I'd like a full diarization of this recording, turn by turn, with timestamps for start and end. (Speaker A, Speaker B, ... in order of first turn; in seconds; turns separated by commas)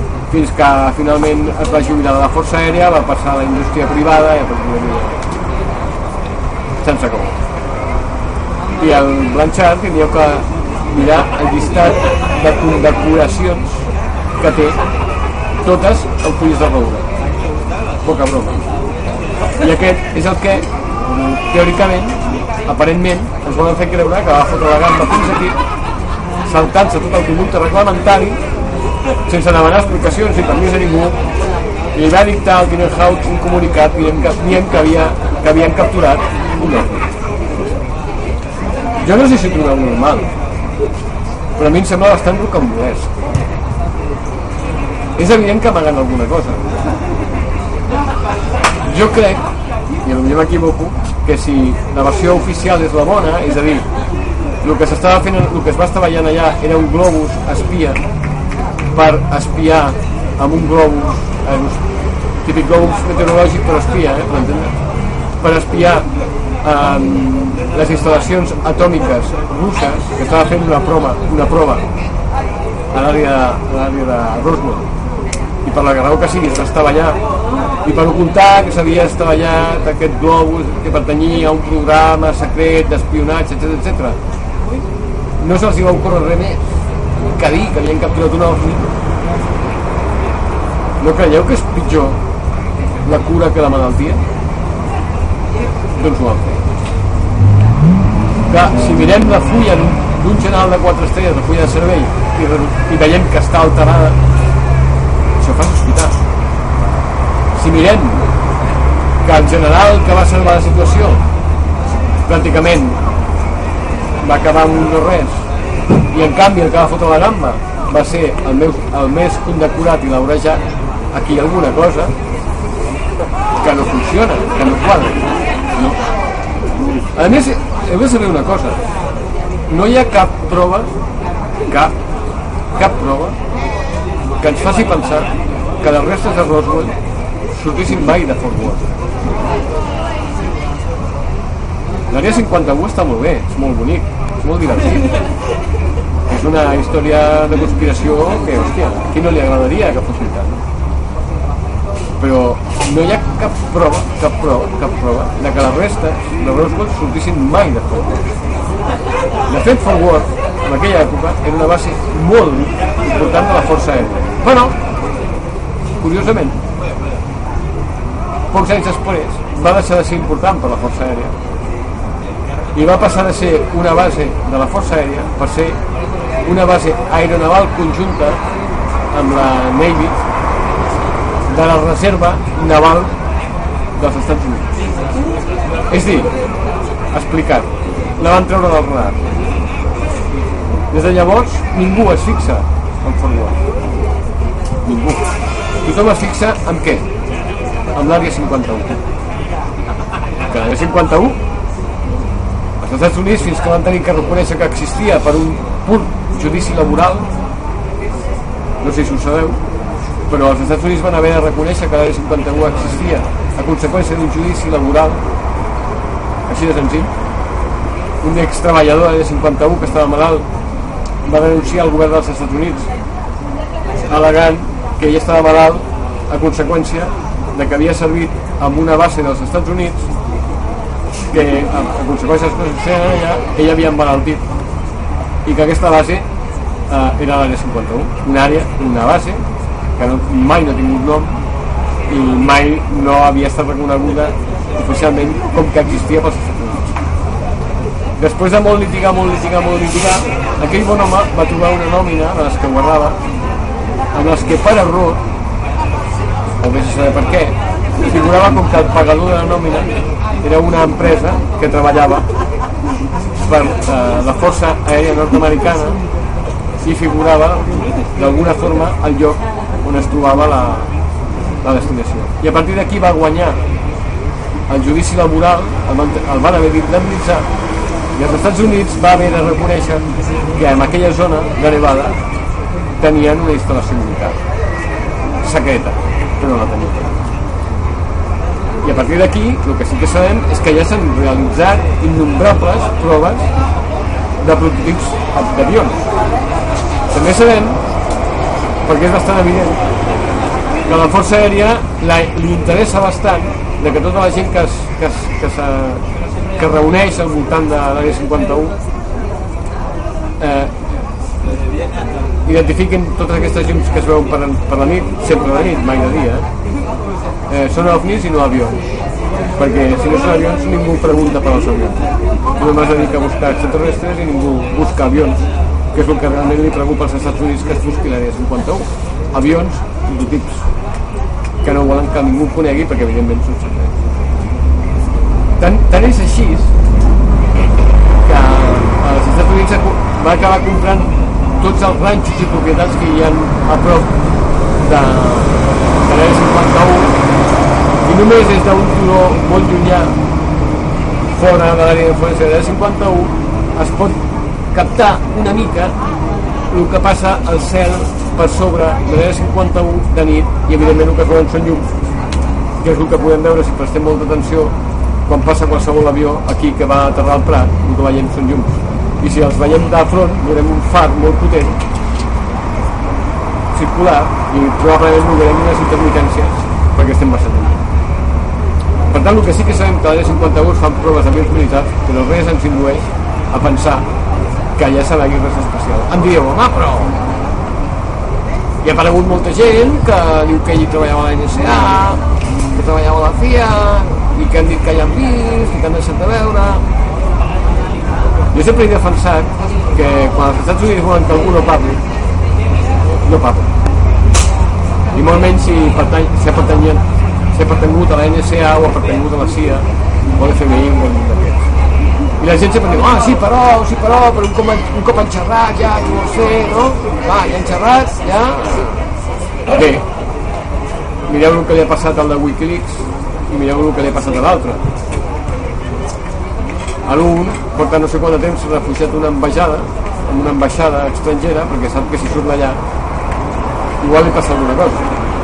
Speaker A: 0.3-5.2, Speaker A: 6.8-7.4, Speaker A: 8.8-13.8, Speaker A: 14.4-14.8, Speaker A: 15.6-17.1, Speaker A: 18.0-18.6, Speaker A: 19.6-20.7, Speaker A: 21.3-25.6, Speaker A: 26.4-28.4, Speaker A: 29.3-31.2, Speaker A: 31.9-37.1, Speaker A: 39.0-40.3, Speaker A: 41.6-43.2, Speaker A: 45.2-46.7, Speaker A: 48.9-49.4, Speaker A: 50.0-53.9, Speaker A: 54.6-58.0, Speaker A: 58.9-61.8, Speaker A: 62.5-64.8, Speaker A: 65.4-66.1, Speaker A: 66.6-71.9, Speaker A: 72.9-74.9, Speaker A: 75.7-77.2, Speaker A: 77.8-84.2, Speaker A: 85.4-86.6, Speaker A: 87.2-88.9, Speaker A: 91.0-92.2, Speaker A: 93.1-94.2, Speaker A: 96.0-96.6, Speaker A: 98.5-104.2, Speaker A: 105.4-106.2, Speaker A: 107.6-108.3, Speaker A: 109.2-111.2, Speaker A: 112.3-113.0, Speaker A: 114.2-115.4, Speaker A: 116.1-120.6, Speaker A: 121.1-122.1, Speaker A: 123.6-126.0, Speaker A: 127.2-128.8, Speaker A: 129.7-130.9, Speaker A: 131.7-131.9, Speaker A: 132.8-133.4, Speaker A: 134.4-136.9, Speaker A: 137.5-138.8, Speaker A: 142.1-145.1, Speaker A: 146.3-150.6, Speaker A: 152.2-158.2, Speaker A: 159.5-164.8, Speaker A: 166.0-166.6, Speaker A: 168.5-171.3, Speaker A: 172.8-175.8, Speaker A: 176.4-178.4, Speaker A: 179.1-180.2, Speaker A: 181.5-183.1, Speaker A: 184.0-184.7, Speaker A: 185.9-186.3, Speaker A: 187.1-189.3, Speaker A: 190.9-193.6, Speaker A: 194.8-195.3, Speaker A: 195.8-197.1, Speaker A: 197.9-199.0, Speaker A: 200.5-201.4, Speaker A: 202.8-207.3, Speaker A: 208.8-209.6, Speaker A: 210.3-215.2, Speaker A: 216.5-217.1, Speaker A: 218.2-220.5, Speaker A: 221.2-222.9, Speaker A: 224.1-230.1, Speaker A: 231.3-234.4, Speaker A: 235.4-236.3, Speaker A: 236.9-239.4, Speaker A: 240.0-241.4, Speaker A: 242.1-246.8, Speaker A: 248.2-253.2, Speaker A: 254.1-255.2, Speaker A: 256.6-259.9, Speaker A: 260.4-262.3, Speaker A: 263.5-266.0, Speaker A: 266.8-270.9, Speaker A: 271.6-273.6, Speaker A: 274.7-277.5, Speaker A: 278.2-282.2, Speaker A: 283.0-284.4, Speaker A: 285.4-287.1, Speaker A: 288.8-293.5, Speaker A: 294.4-296.1, Speaker A: 297.1-297.8, Speaker A: 298.9-299.8, Speaker A: 300.9-306.0, Speaker A: 306.6-308.8, Speaker A: 310.4-310.7, Speaker A: 312.4-316.4, Speaker A: 317.5-318.8, Speaker A: 319.6-322.1, Speaker A: 322.6-330.7, Speaker A: 331.6-333.9, Speaker A: 335.6-336.7, Speaker A: 338.2-344.1, Speaker A: 344.8-347.2, Speaker A: 348.1-350.1, Speaker A: 351.3-354.2, Speaker A: 354.7-356.0, Speaker A: 356.7-361.9, Speaker A: 362.8-364.7, Speaker A: 365.3-371.8, Speaker A: 373.7-377.8, Speaker A: 379.1-384.1, Speaker A: 384.8-387.1, Speaker A: 388.8-392.2, Speaker A: 392.7-396.8, Speaker A: 398.5-402.0, Speaker A: 403.2-403.7, Speaker A: 405.1-407.0, Speaker A: 407.5-409.9, Speaker A: 410.4-411.7, Speaker A: 412.4-418.9, Speaker A: 419.7-420.1, Speaker A: 421.3-424.8, Speaker A: 427.1-432.8, Speaker A: 434.0-435.1